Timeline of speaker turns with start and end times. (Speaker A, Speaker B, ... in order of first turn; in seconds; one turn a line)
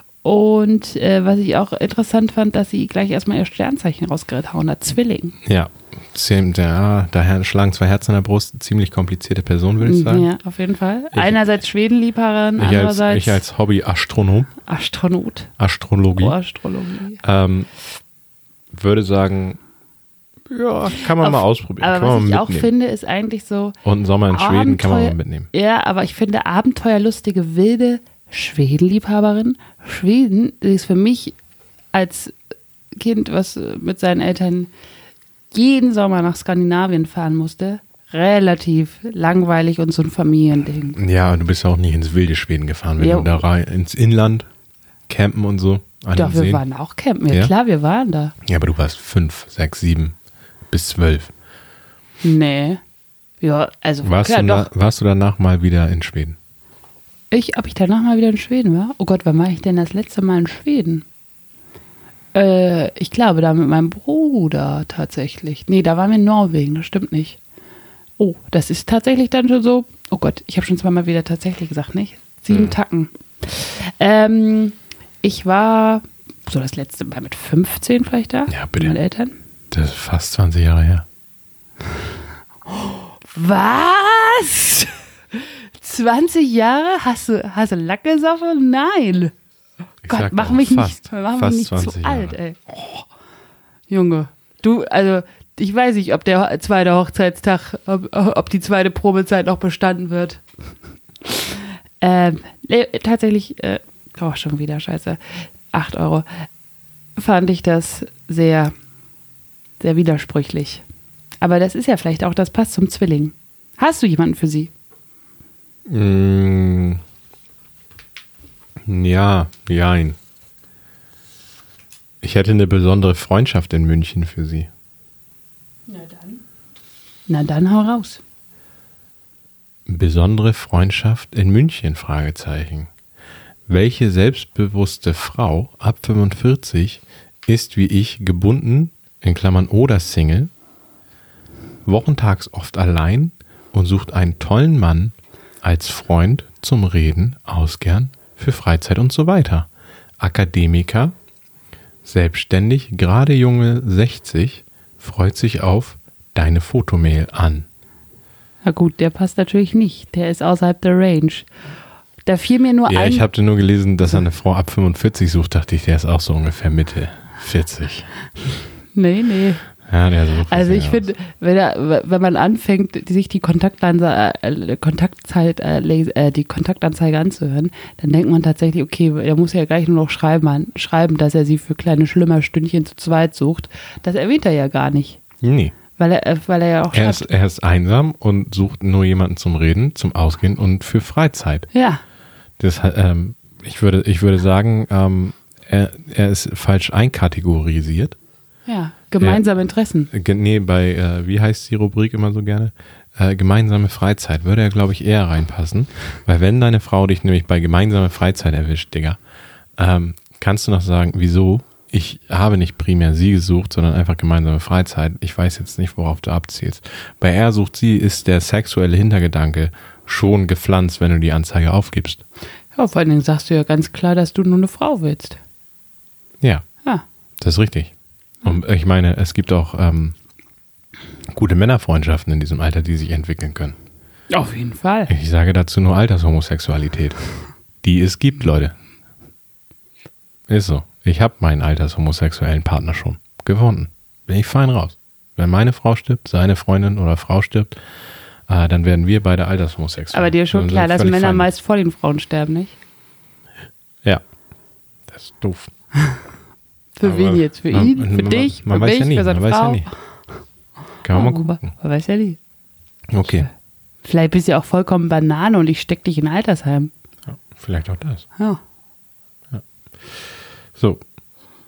Speaker A: 0.2-5.3
Speaker B: 5.4-10.3
Speaker A: 9.8-13.4
Speaker B: 11.1-11.5
Speaker B: 12.6-14.5
Speaker A: 14.6-15.5
Speaker B: 15.6-16.4
Speaker A: 16.1-17.2
Speaker B: 17.2-17.7
Speaker B: 18.7-19.6
Speaker B: 20.5-22.7
Speaker A: 21.1-23.8
Speaker B: 23.8-25.5
Speaker A: 24.3-31.4
Speaker A: 31.9-32.4
Speaker A: 33.0-34.7
Speaker A: 35.5-41.0
Speaker B: 41.0-44.5
Speaker A: 43.0-43.4
Speaker B: 45.1-46.6
Speaker A: 46.1-48.3
Speaker B: 48.4-50.1
Speaker B: 50.7-51.3
Speaker A: 52.2-52.8
Speaker A: 53.4-54.7
Speaker B: 54.0-56.4
Speaker A: 57.3-61.0
Speaker A: 62.3-67.4
Speaker A: 68.2-79.4
Speaker B: 72.5-72.7
Speaker B: 78.5-78.9
Speaker B: 79.7-81.0
Speaker A: 82.7-89.3
Speaker B: 90.0-92.4
Speaker A: 90.1-93.0
Speaker A: 93.9-100.4
Speaker A: 101.2-105.2
Speaker A: 105.7-106.2
Speaker A: 107.2-108.7
Speaker A: 109.8-110.8
Speaker A: 111.4-114.7
Speaker B: 115.8-117.0
Speaker B: 118.8-120.2
Speaker B: 122.2-124.7
Speaker A: 125.9-126.4
Speaker A: 127.3-128.2
Speaker B: 129.9-132.9
Speaker B: 133.7-140.5
Speaker B: 141.8-149.7
Speaker B: 150.2-151.1
Speaker B: 152.0-157.7
Speaker A: 158.6-161.5
Speaker A: 162.2-163.2
Speaker B: 162.9-168.1
Speaker A: 168.9-169.6
Speaker B: 169.8-171.1
Speaker A: 170.5-185.2
Speaker B: 185.4-185.8
Speaker A: 186.0-187.3
Speaker B: 186.9-191.7
Speaker A: 191.7-192.0
Speaker B: 192.6-198.2
Speaker A: 198.7-200.1
Speaker B: 200.1-209.2
Speaker B: 209.8-222.2
Speaker A: 222.7-225.4
Speaker B: 226.4-226.7
Speaker B: 227.4-230.2
Speaker B: 231.3-233.8
Speaker A: 234.3-235.1
Speaker B: 235.1-237.2
Speaker B: 237.8-238.7
Speaker B: 240.5-247.8
Speaker B: 248.5-251.5
Speaker A: 250.1-252.8
Speaker B: 255.1-255.7
Speaker A: 256.9-259.9
Speaker B: 257.0-259.9
Speaker B: 261.0-261.7
Speaker A: 261.1-262.4
Speaker B: 263.1-263.5
Speaker A: 264.0-266.9
Speaker B: 267.3-268.2
Speaker B: 269.5-271.0